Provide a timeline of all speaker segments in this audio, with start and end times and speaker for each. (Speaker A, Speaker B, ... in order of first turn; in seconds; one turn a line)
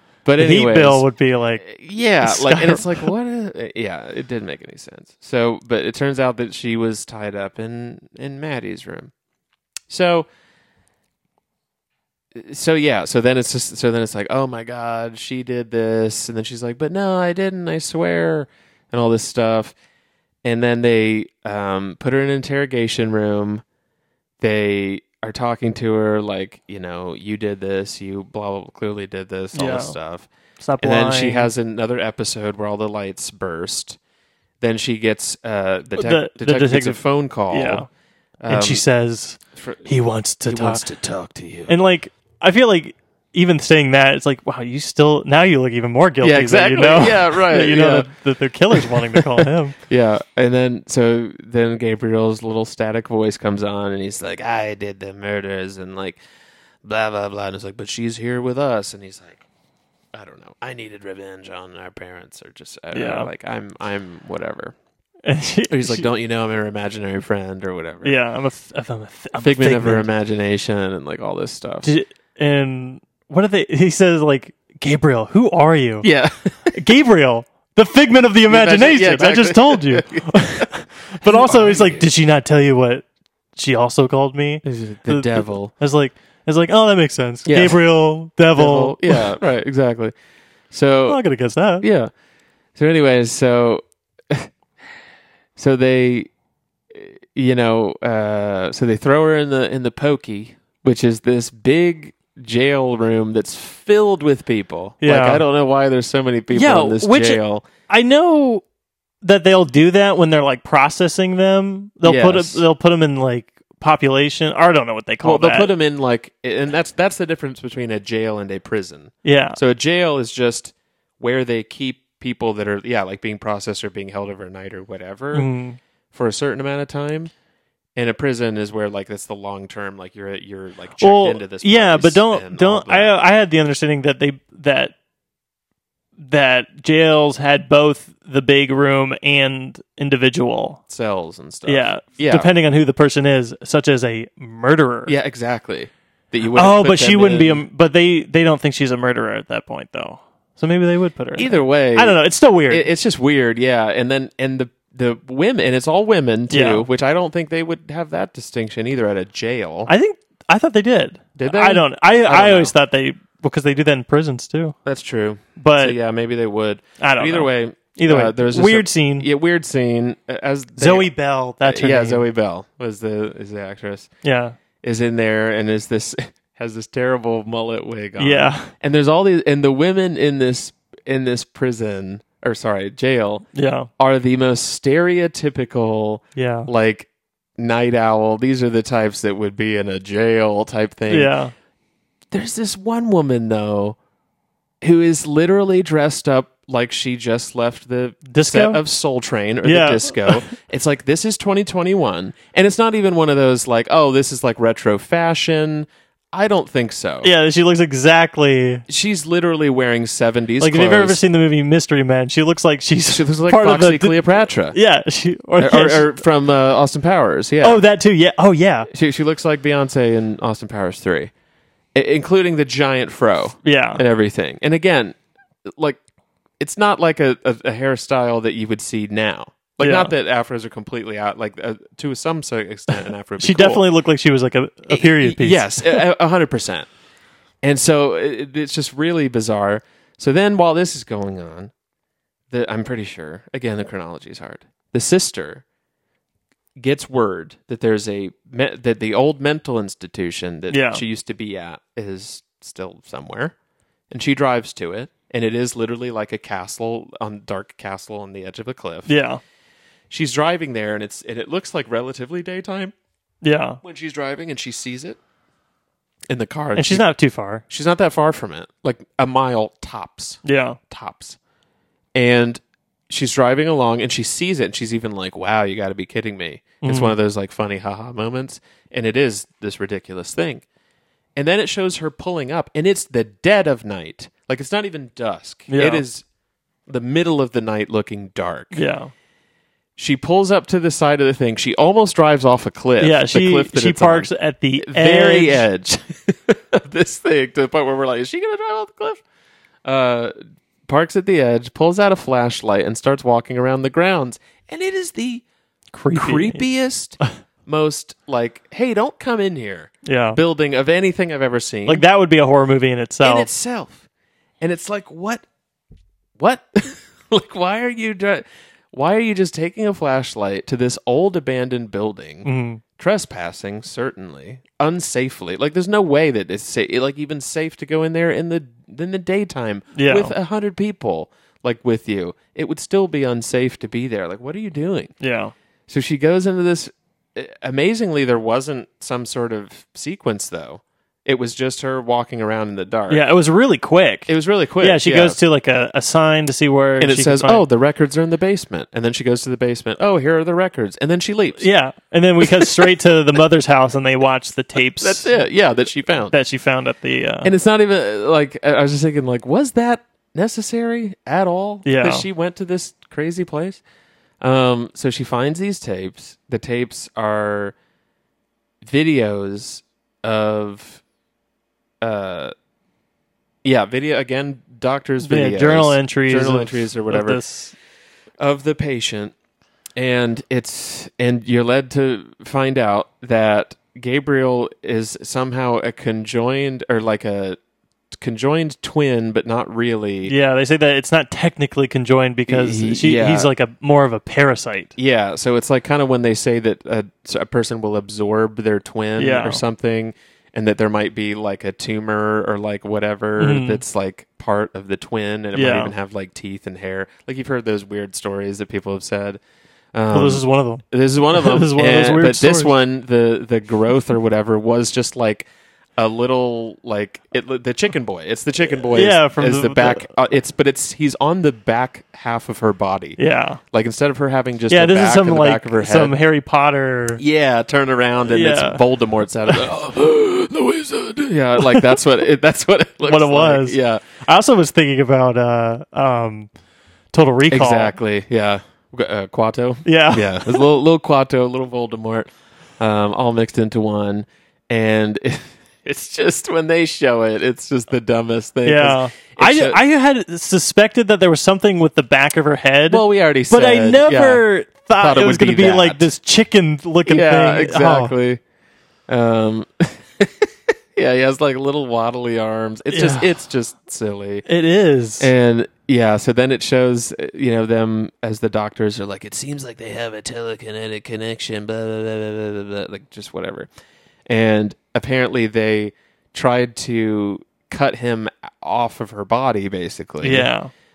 Speaker A: 0.2-1.1
Speaker B: 0.4-1.6
Speaker A: 1.6-9.1
Speaker B: 2.2-3.1
Speaker A: 9.9-10.3
Speaker A: 12.3-19.7
Speaker A: 20.4-23.6
Speaker A: 24.4-30.3
Speaker B: 29.5-30.0
Speaker B: 30.6-31.5
Speaker A: 30.8-34.0
Speaker A: 34.6-37.9
Speaker B: 36.0-37.9
Speaker A: 38.4-38.8
Speaker B: 38.5-40.8
Speaker A: 39.5-39.9
Speaker A: 40.5-41.8
Speaker B: 41.7-49.8
Speaker A: 46.2-48.1
Speaker A: 48.8-56.2
Speaker A: 56.8-59.5
Speaker A: 60.1-64.8
Speaker B: 62.9-63.3
Speaker B: 65.2-66.1
Speaker A: 65.7-68.2
Speaker B: 68.0-70.1
Speaker A: 69.4-71.9
Speaker B: 71.8-76.1
Speaker A: 76.0-76.8
Speaker B: 76.7-89.3
Speaker A: 78.5-82.1
Speaker A: 84.6-85.7
Speaker A: 87.5-87.8
Speaker A: 88.5-90.1
Speaker A: 90.7-91.2
Speaker B: 91.1-91.8
Speaker A: 91.8-92.1
Speaker A: 92.8-94.5
Speaker A: 95.6-96.3
Speaker A: 96.9-107.7
Speaker B: 105.0-105.4
Speaker B: 106.5-108.6
Speaker B: 109.2-115.7
Speaker A: 112.0-112.6
Speaker A: 115.2-125.5
Speaker B: 119.2-119.6
Speaker B: 125.3-125.8
Speaker A: 126.1-127.3
Speaker A: 128.0-133.1
Speaker B: 131.0-134.9
Speaker B: 136.2-140.8
Speaker A: 140.9-142.5
Speaker B: 141.7-145.1
Speaker A: 145.1-147.6
Speaker B: 146.6-152.9
Speaker A: 151.4-152.2
Speaker A: 152.7-159.9
Speaker B: 156.5-156.9
Speaker B: 159.9-164.8
Speaker A: 161.4-162.7
Speaker A: 164.8-171.1
Speaker B: 165.6-166.0
Speaker B: 167.0-169.3
Speaker B: 170.8-172.2
Speaker A: 171.6-174.1
Speaker B: 174.2-174.6
Speaker A: 174.8-183.5
Speaker B: 178.2-178.7
Speaker B: 183.5-183.9
Speaker A: 184.0-191.3
Speaker B: 186.4-186.7
Speaker B: 191.1-191.5
Speaker A: 192.3-194.0
Speaker A: 194.8-207.3
Speaker B: 198.3-198.8
Speaker B: 199.6-200.5
Speaker B: 207.2-208.8
Speaker A: 208.9-211.2
Speaker B: 210.6-216.2
Speaker A: 213.1-214.8
Speaker A: 215.6-217.8
Speaker B: 217.6-218.9
Speaker A: 218.9-221.3
Speaker A: 221.9-225.2
Speaker B: 223.6-224.0
Speaker A: 225.8-226.0
Speaker A: 226.6-233.8
Speaker B: 229.8-230.1
Speaker B: 233.4-236.0
Speaker A: 234.9-236.9
Speaker A: 237.6-241.7
Speaker A: 242.5-245.6
Speaker A: 246.8-253.6
Speaker B: 250.7-251.0
Speaker A: 254.1-259.1
Speaker B: 259.1-259.4
Speaker A: 260.1-262.9
Speaker B: 263.4-263.8
Speaker A: 263.8-265.2
Speaker A: 266.3-267.1
Speaker B: 266.8-267.6
Speaker A: 267.7-271.4
Speaker B: 270.4-270.8
Speaker A: 272.1-280.6
Speaker B: 276.8-277.1
Speaker A: 281.4-286.2
Speaker B: 285.7-286.1
Speaker A: 286.9-288.8
Speaker B: 288.7-289.1
Speaker A: 290.0-299.2
Speaker B: 293.0-295.6
Speaker A: 299.9-300.4
Speaker A: 300.9-305.4
Speaker B: 305.9-306.6
Speaker A: 306.1-312.0
Speaker B: 310.0-310.4
Speaker B: 311.9-313.5
Speaker A: 313.2-314.1
Speaker A: 314.6-315.4
Speaker A: 316.4-335.1
Speaker B: 322.4-322.8
Speaker B: 329.9-330.4
Speaker B: 335.2-335.5
Speaker A: 335.9-343.2
Speaker B: 343.1-347.6
Speaker A: 344.3-345.4
Speaker A: 347.0-351.7
Speaker B: 351.6-355.3
Speaker A: 352.5-352.9
Speaker A: 355.0-356.4
Speaker B: 356.3-357.5
Speaker A: 357.4-363.8
Speaker B: 361.9-362.2
Speaker A: 364.4-367.8
Speaker A: 368.8-371.0
Speaker A: 372.0-372.5
Speaker A: 373.6-377.4
Speaker B: 375.2-377.8
Speaker A: 378.4-379.3
Speaker A: 380.0-387.6
Speaker A: 388.1-390.3
Speaker B: 390.2-394.9
Speaker A: 392.5-393.5
Speaker A: 395.0-409.4
Speaker B: 399.2-399.6
Speaker B: 403.4-403.8
Speaker B: 405.6-405.9
Speaker A: 409.9-423.2
Speaker B: 410.1-412.7
Speaker B: 418.7-420.1
Speaker B: 423.2-423.6
Speaker A: 423.7-426.1
Speaker B: 424.7-427.2
Speaker A: 427.2-434.1
Speaker B: 428.2-428.8
Speaker B: 431.6-432.0
Speaker B: 433.0-436.5
Speaker B: 437.1-438.0
Speaker A: 437.5-449.8
Speaker B: 439.9-440.6
Speaker B: 448.6-458.1
Speaker A: 452.9-454.4
Speaker A: 455.0-456.1
Speaker A: 457.1-458.4
Speaker A: 459.1-464.4
Speaker B: 462.9-463.3
Speaker B: 464.5-465.3
Speaker A: 465.2-473.7
Speaker A: 474.3-480.5
Speaker B: 480.2-480.7